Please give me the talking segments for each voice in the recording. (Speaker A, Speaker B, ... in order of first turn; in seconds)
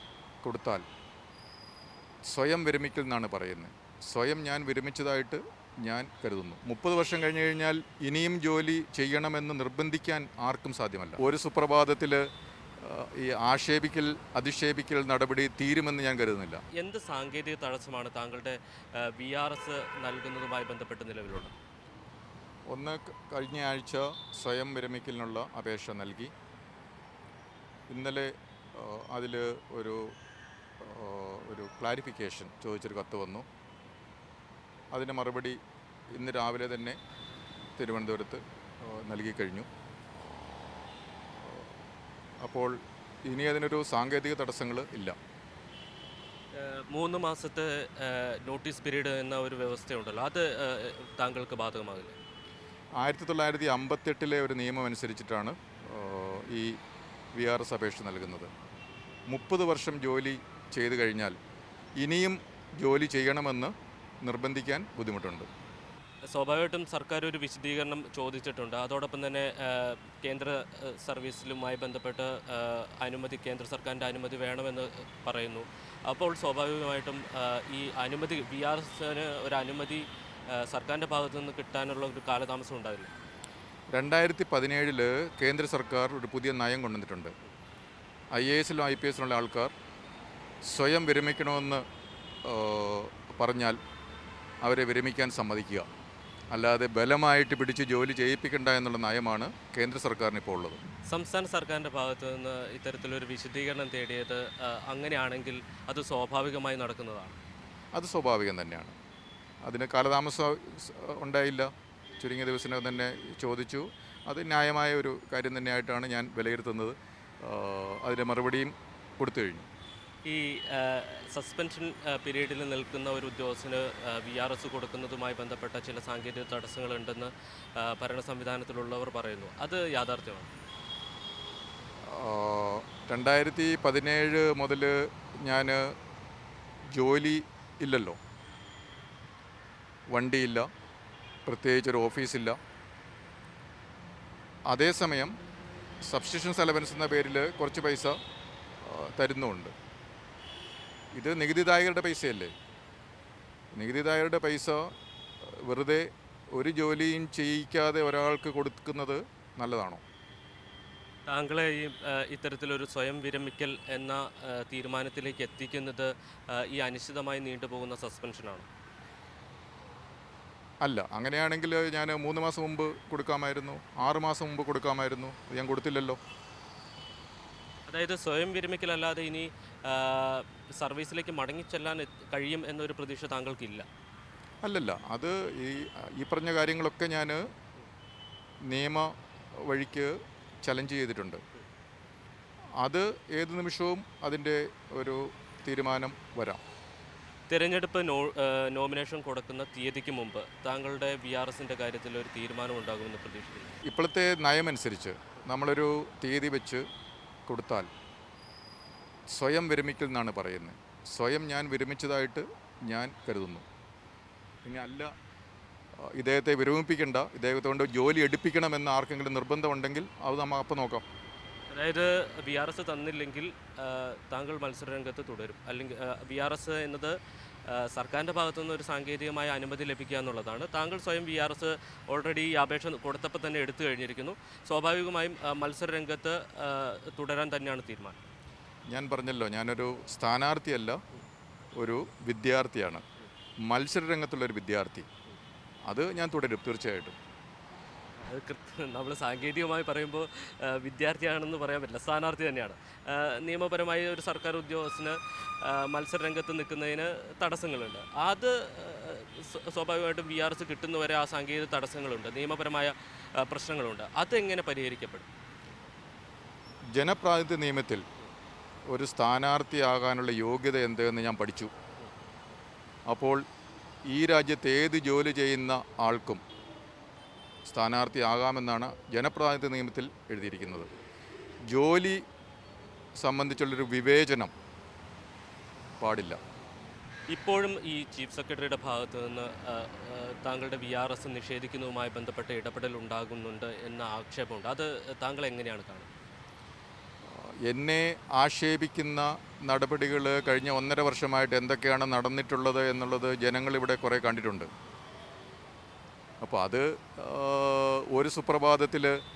Speaker A: 0.4-0.8, 2.2-12.3, 12.8-16.6, 22.7-26.3, 27.9-30.1, 30.8-33.5, 34.9-35.6, 36.1-37.0, 37.8-39.7, 42.4-45.2, 53.0-56.8, 57.3-58.5, 59.3-61.4, 62.0-65.5, 83.9-87.3, 88.3-89.7, 90.7-91.8, 92.4-93.8, 94.6-95.9, 96.5-100.8, 107.9-108.9, 109.6-119.7, 132.0-136.0, 136.9-138.2, 140.1-140.7, 141.5-142.6, 144.7-145.3, 146.1-148.2, 148.8-149.7, 151.1-152.5, 153.7-154.9, 155.4-160.0, 170.8-176.2, 184.6-187.5, 188.7-191.4, 192.8-196.6, 203.8-206.8, 207.5-207.9, 209.3-213.6, 214.7-215.1, 216.0-221.1, 238.9-241.0, 241.8-243.0, 243.7-245.1, 245.9-247.2, 266.9-268.0, 268.9-271.7, 273.1-273.4, 274.1-276.4, 277.7-280.9, 281.7-282.2, 283.2-284.5, 286.0-286.4, 297.3-304.7, 306.4-309.2
Speaker B: 16.7-21.5, 46.5-52.2, 66.3-83.1, 101.1-107.4, 120.2-130.5, 161.3-168.7, 177.9-183.9, 197.5-203.8, 221.7-238.2, 248.2-265.3, 287.3-296.1